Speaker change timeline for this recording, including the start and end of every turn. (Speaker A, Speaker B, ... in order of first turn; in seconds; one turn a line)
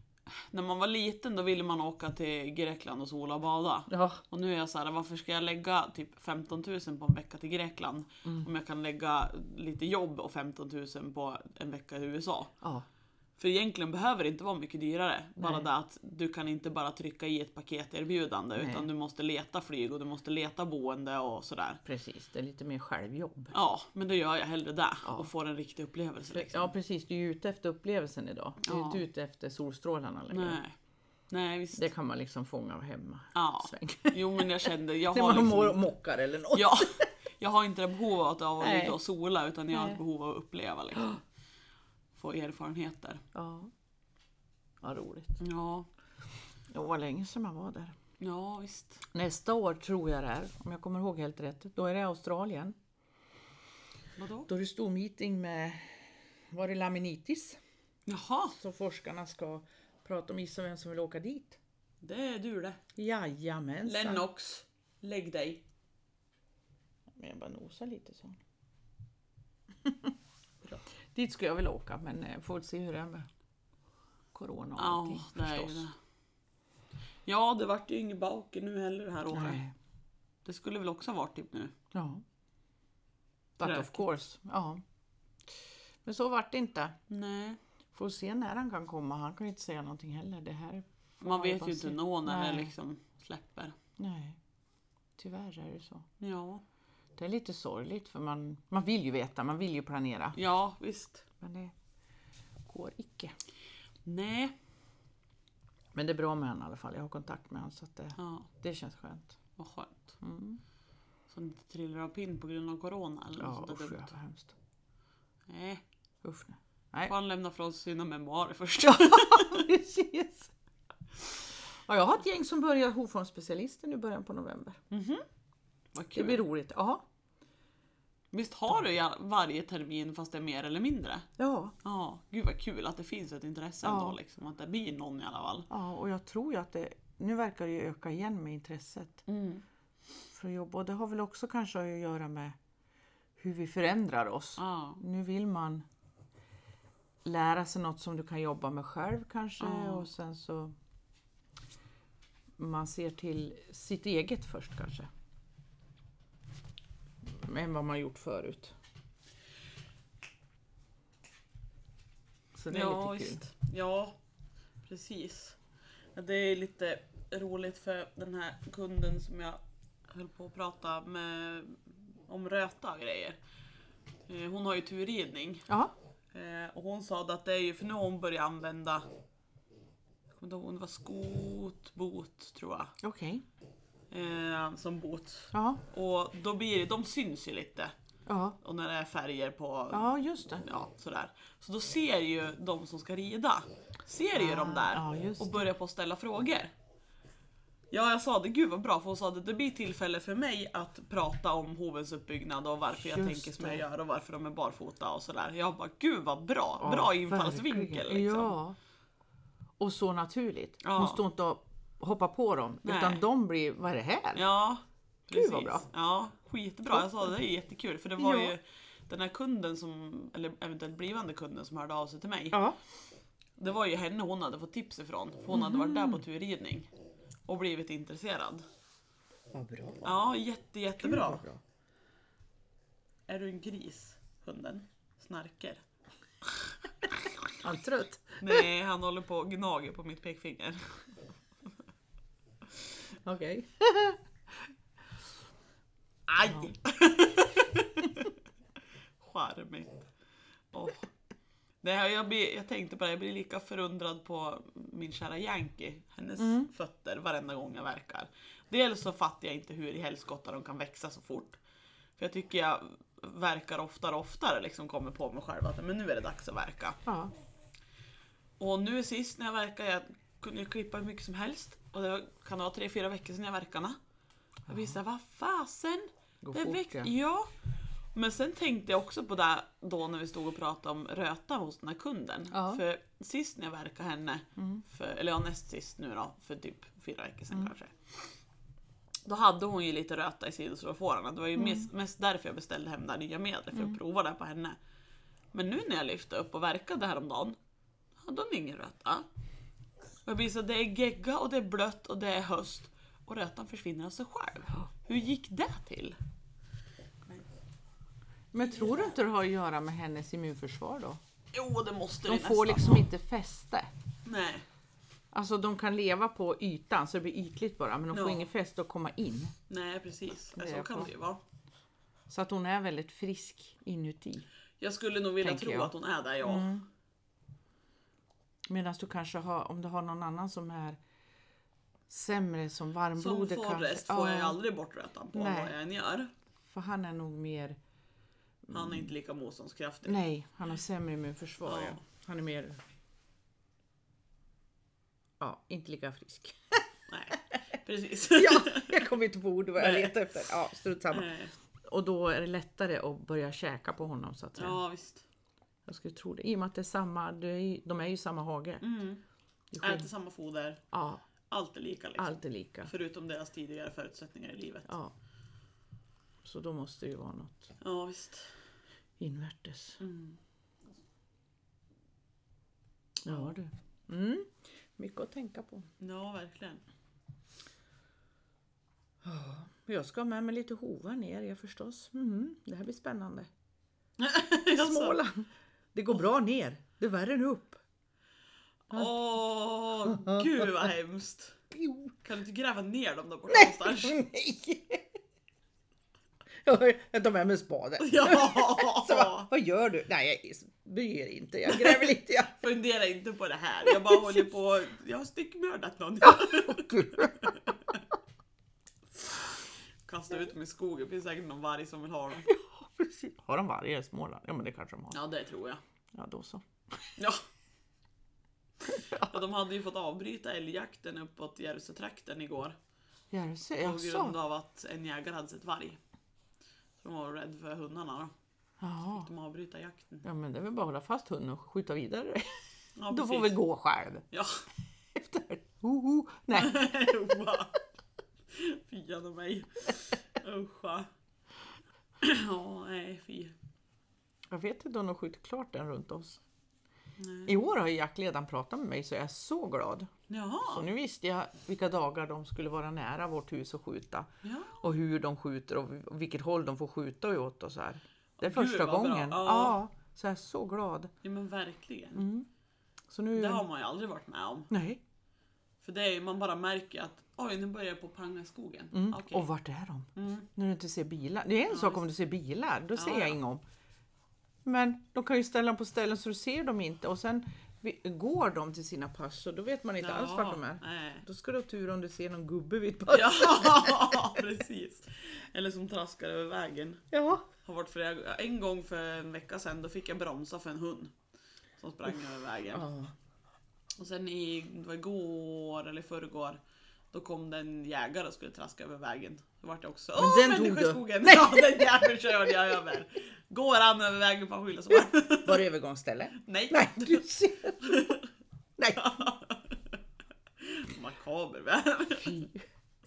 Speaker A: 0.3-12.5
Speaker B: 3.9-4.2
Speaker A: 13.4-21.8
Speaker B: 15.4-15.7
Speaker B: 18.6-18.9
Speaker B: 21.9-23.5
Speaker A: 23.5-26.7
Speaker B: 25.0-25.3
Speaker B: 26.3-30.6
Speaker A: 28.6-29.0
Speaker A: 30.3-30.8
Speaker A: 31.3-31.9
Speaker B: 31.7-37.1
Speaker A: 33.3-35.8
Speaker A: 36.5-41.2
Speaker B: 38.6-39.0
Speaker B: 39.7-40.0
Speaker A: 42.1-43.2
Speaker B: 43.3-43.7
Speaker B: 44.8-45.4
Speaker A: 45.4-45.9
Speaker B: 46.7-48.0
Speaker A: 48.2-49.0
Speaker B: 49.1-52.8
Speaker A: 54.2-54.5
Speaker B: 54.5-57.6
Speaker A: 58.0-58.6
Speaker B: 58.5-61.6
Speaker A: 62.0-62.8
Speaker B: 63.0-64.2
Speaker A: 63.9-65.6
Speaker B: 67.2-68.4
Speaker B: 69.8-70.1
Speaker B: 71.1-73.3
Speaker B: 74.3-75.9
Speaker A: 74.8-75.9
Speaker A: 77.2-79.6
Speaker B: 79.3-79.7
Speaker A: 80.4-81.7
Speaker B: 81.9-82.2
Speaker A: 83.6-84.0
Speaker B: 83.6-84.8
Speaker B: 86.0-87.0
Speaker A: 87.1-87.6
Speaker B: 87.9-92.7
Speaker A: 91.2-93.7
Speaker B: 94.0-94.4
Speaker B: 95.2-96.0
Speaker A: 96.2-96.6
Speaker B: 97.2-100.4
Speaker A: 100.3-101.2
Speaker B: 101.4-101.7
Speaker B: 102.7-103.3
Speaker A: 104.0-104.5
Speaker B: 105.9-109.4
Speaker A: 108.2-108.5
Speaker A: 109.6-110.2
Speaker B: 110.2-110.6
Speaker A: 111.3-114.1
Speaker B: 113.4-114.5
Speaker A: 115.5-115.8
Speaker B: 116.2-117.1
Speaker A: 117.0-119.6
Speaker B: 118.8-120.5
Speaker B: 121.2-124.8
Speaker A: 124.9-125.2
Speaker A: 125.9-126.4
Speaker B: 126.1-127.0
Speaker A: 128.3-131.3
Speaker B: 131.4-131.7
Speaker A: 131.8-135.7
Speaker B: 133.8-134.2
Speaker B: 135.7-139.2
Speaker A: 139.3-139.6
Speaker B: 140.3-142.6
Speaker B: 143.4-145.9
Speaker A: 144.6-145.0
Speaker B: 147.2-150.7
Speaker A: 149.6-150.1
Speaker B: 152.6-155.1
Speaker B: 157.2-158.7
Speaker B: 162.5-163.4
Speaker A: 162.7-164.1
Speaker A: 164.9-165.6
Speaker A: 166.1-173.4
Speaker A: 174.3-175.7
Speaker B: 175.7-175.9
Speaker A: 176.3-179.1
Speaker A: 180.4-182.9
Speaker B: 183.0-183.4
Speaker A: 184.1-187.9
Speaker B: 185.5-185.8
Speaker B: 188.2-188.6
Speaker A: 188.6-196.7
Speaker B: 189.9-190.6
Speaker B: 194.3-195.7
Speaker A: 197.9-208.6
Speaker B: 203.0-203.8
Speaker B: 206.8-208.8
Speaker B: 209.8-214.4
Speaker A: 210.8-211.2
Speaker A: 212.8-213.2
Speaker A: 214.3-222.6
Speaker B: 215.3-215.9
Speaker B: 216.9-217.3
Speaker B: 218.2-218.5
Speaker B: 222.5-222.8
Speaker A: 223.6-226.9
Speaker B: 225.5-226.2
Speaker A: 227.5-228.6
Speaker B: 229.5-230.2
Speaker A: 230.0-231.4
Speaker B: 231.0-231.6
Speaker A: 233.3-235.8
Speaker B: 237.6-238.7
Speaker A: 238.4-241.0
Speaker B: 243.2-244.2
Speaker A: 246.3-248.4
Speaker B: 246.4-246.7
Speaker A: 249.2-250.1
Speaker A: 250.7-251.1
Speaker A: 251.8-261.6
Speaker B: 256.4-256.7
Speaker A: 262.2-267.0
Speaker B: 267.1-267.3
Speaker A: 268.6-274.0
Speaker B: 274.7-275.0
Speaker A: 274.7-277.5
Speaker B: 276.4-277.1
Speaker A: 278.1-288.1
Speaker B: 282.5-282.8
Speaker B: 284.6-284.8
Speaker A: 289.2-294.8
Speaker B: 291.6-291.9
Speaker A: 295.5-297.6
Speaker A: 298.2-299.3
Speaker A: 300.2-306.2
Speaker B: 308.5-311.2
Speaker A: 308.7-309.1
Speaker A: 311.5-313.1
Speaker B: 312.2-313.9
Speaker A: 314.2-314.6
Speaker B: 315.3-319.5
Speaker A: 318.1-318.5
Speaker A: 319.7-321.4
Speaker B: 320.5-321.1
Speaker B: 322.3-324.5
Speaker A: 324.8-326.7
Speaker B: 325.4-326.9
Speaker B: 328.7-331.0
Speaker B: 332.1-334.6
Speaker A: 333.2-336.3
Speaker B: 335.3-335.7
Speaker B: 336.7-337.8
Speaker B: 338.7-339.1
Speaker A: 338.7-340.2
Speaker B: 340.1-342.8
Speaker A: 341.6-342.0
Speaker B: 345.4-346.8
Speaker A: 347.1-349.1
Speaker B: 348.3-351.3
Speaker A: 349.8-350.1
Speaker A: 351.1-351.5
Speaker B: 351.8-354.8
Speaker A: 354.6-355.2
Speaker B: 355.9-358.9
Speaker A: 358.8-359.2
Speaker B: 359.7-360.1
Speaker A: 359.8-360.8
Speaker B: 360.9-361.2
Speaker A: 361.5-364.9
Speaker B: 362.2-362.9
Speaker B: 364.9-365.1
Speaker B: 366.4-367.7
Speaker A: 367.8-368.5
Speaker B: 369.2-370.0
Speaker A: 370.0-370.4
Speaker B: 373.2-375.9
Speaker A: 373.2-373.5
Speaker A: 376.0-376.8
Speaker B: 379.2-383.5
Speaker A: 384.2-385.2
Speaker B: 384.7-387.8
Speaker A: 388.9-391.6
Speaker B: 390.0-390.9
Speaker B: 391.7-392.2
Speaker A: 392.2-394.2
Speaker B: 393.5-395.1
Speaker B: 396.6-402.6
Speaker A: 398.0-399.5
Speaker A: 402.5-408.0
Speaker B: 403.9-404.4
Speaker B: 406.2-407.6
Speaker A: 410.0-412.5
Speaker B: 412.5-415.2
Speaker A: 415.1-415.8
Speaker B: 416.1-417.1
Speaker A: 417.2-417.4
Speaker B: 418.9-419.3
Speaker A: 418.9-422.8
Speaker B: 423.3-424.4
Speaker A: 423.8-426.0
Speaker A: 427.0-428.3
Speaker B: 428.8-429.3
Speaker A: 429.2-430.2
Speaker B: 430.2-432.6
Speaker A: 432.9-433.6
Speaker B: 433.1-434.3
Speaker A: 434.3-434.6
Speaker B: 435.1-436.8
Speaker A: 436.5-437.8
Speaker A: 438.5-441.1
Speaker A: 442.2-443.5
Speaker B: 444.5-446.4
Speaker A: 447.2-447.6
Speaker B: 447.4-450.1
Speaker A: 450.3-450.9
Speaker B: 450.6-461.1
Speaker A: 454.4-454.8
Speaker A: 458.4-459.8
Speaker A: 461.2-462.3
Speaker B: 462.1-462.5
Speaker B: 463.1-463.6
Speaker A: 463.4-464.7
Speaker B: 464.7-465.0
Speaker A: 465.8-469.5
Speaker B: 468.9-473.6
Speaker A: 470.1-470.5
Speaker A: 471.7-472.0
Speaker A: 472.9-473.4
Speaker B: 474.6-484.4
Speaker A: 480.0-481.2
Speaker A: 483.1-487.1
Speaker B: 487.1-487.4
Speaker A: 487.6-491.1
Speaker A: 491.8-492.9
Speaker B: 492.7-493.1
Speaker A: 494.0-496.6
Speaker A: 497.1-505.6
Speaker B: 500.2-502.1
Speaker B: 504.9-508.2
Speaker A: 506.4-507.2
Speaker A: 507.8-508.2
Speaker B: 508.8-509.2
Speaker A: 508.9-509.8
Speaker A: 510.6-512.4
Speaker B: 512.2-512.6